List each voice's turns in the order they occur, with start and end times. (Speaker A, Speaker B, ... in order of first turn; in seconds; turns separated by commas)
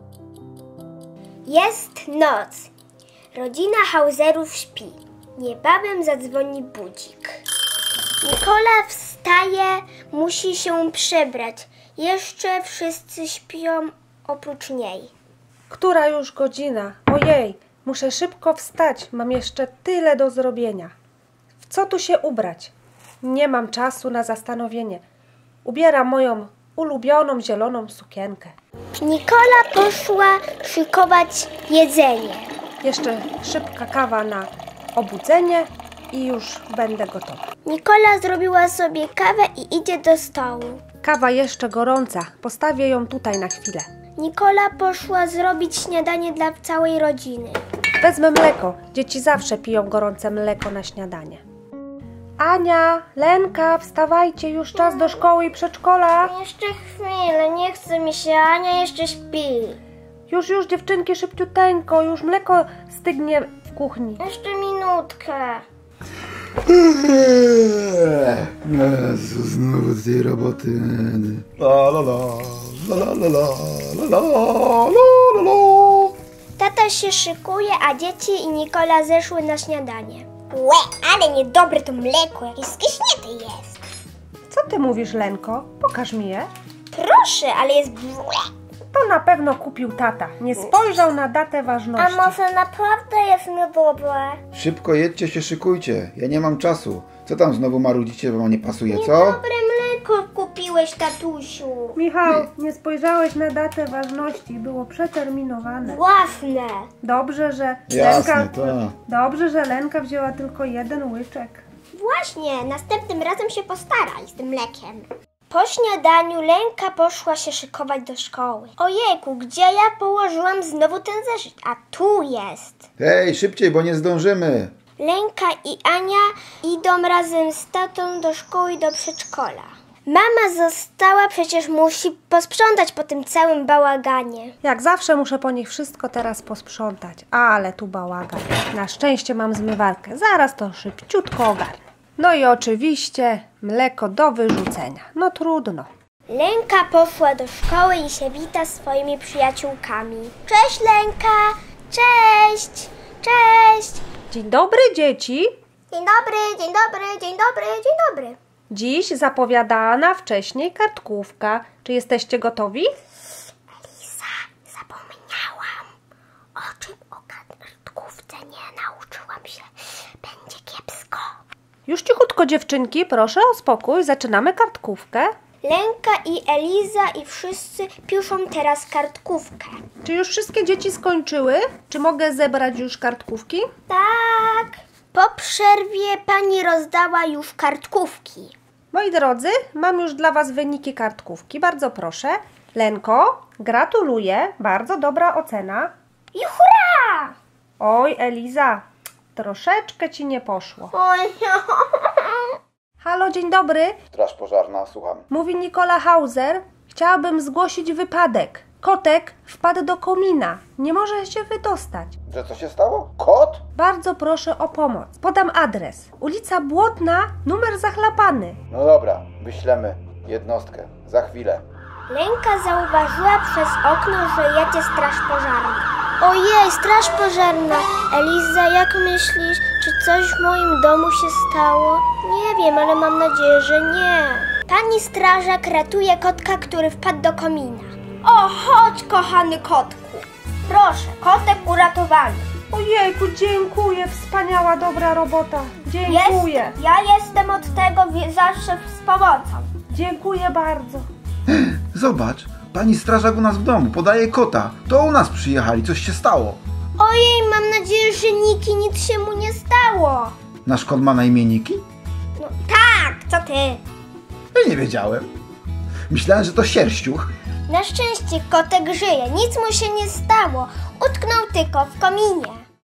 Speaker A: 1.5-2.7, Speaker A: 3.3-7.4, Speaker A: 8.2-15.1, Speaker B: 15.7-20.9, Speaker B: 21.6-25.0, Speaker B: 25.6-28.5, Speaker A: 29.0-32.5, Speaker B: 32.8-37.4, Speaker A: 37.6-40.8, Speaker B: 41.0-43.9, Speaker A: 44.2-47.6, Speaker B: 48.0-51.4, Speaker B: 52.4-56.3, Speaker A: 54.8-55.2, Speaker A: 56.2-59.8, Speaker B: 60.3-64.2, Speaker A: 64.2-65.6, Speaker C: 66.7-76.2, Speaker A: 76.6-83.8, Speaker B: 84.5-86.5, Speaker A: 86.9-88.5, Speaker B: 88.9-92.3, Speaker A: 92.0-94.4, Speaker C: 94.5-99.4, Speaker A: 98.9-102.0, Speaker B: 102.0-106.0, Speaker A: 105.8-106.9, Speaker B: 107.0-111.6, Speaker C: 107.9-108.9, Speaker A: 112.0-122.8, Speaker C: 123.0-124.7, Speaker A: 125.0-134.6, Speaker B: 134.6-145.9, Speaker A: 146.3-154.1, Speaker B: 154.3-155.5, Speaker A: 155.9-158.4, Speaker B: 158.7-162.9, Speaker A: 163.8-165.9, Speaker A: 166.6-171.3, Speaker B: 171.9-175.3, Speaker A: 175.6-179.8, Speaker B: 180.0-183.7, Speaker A: 183.9-188.6, Speaker B: 188.9-195.9, Speaker A: 196.3-197.4, Speaker B: 197.8-198.8, Speaker B: 199.4-200.9, Speaker A: 200.9-202.6, Speaker B: 203.0-204.0, Speaker C: 204.1-205.3, Speaker B: 205.3-212.2, Speaker C: 212.3-213.6, Speaker B: 213.8-218.6, Speaker C: 218.7-221.7, Speaker A: 222.1-242.5, Speaker B: 242.7-246.8, Speaker A: 246.1-249.7, Speaker B: 249.9-251.1, Speaker C: 251.5-256.6, Speaker A: 257.0-260.4, Speaker C: 260.6-261.8, Speaker A: 262.4-263.8, Speaker C: 264.5-265.3, Speaker C: 266.1-267.3, Speaker A: 267.7-272.7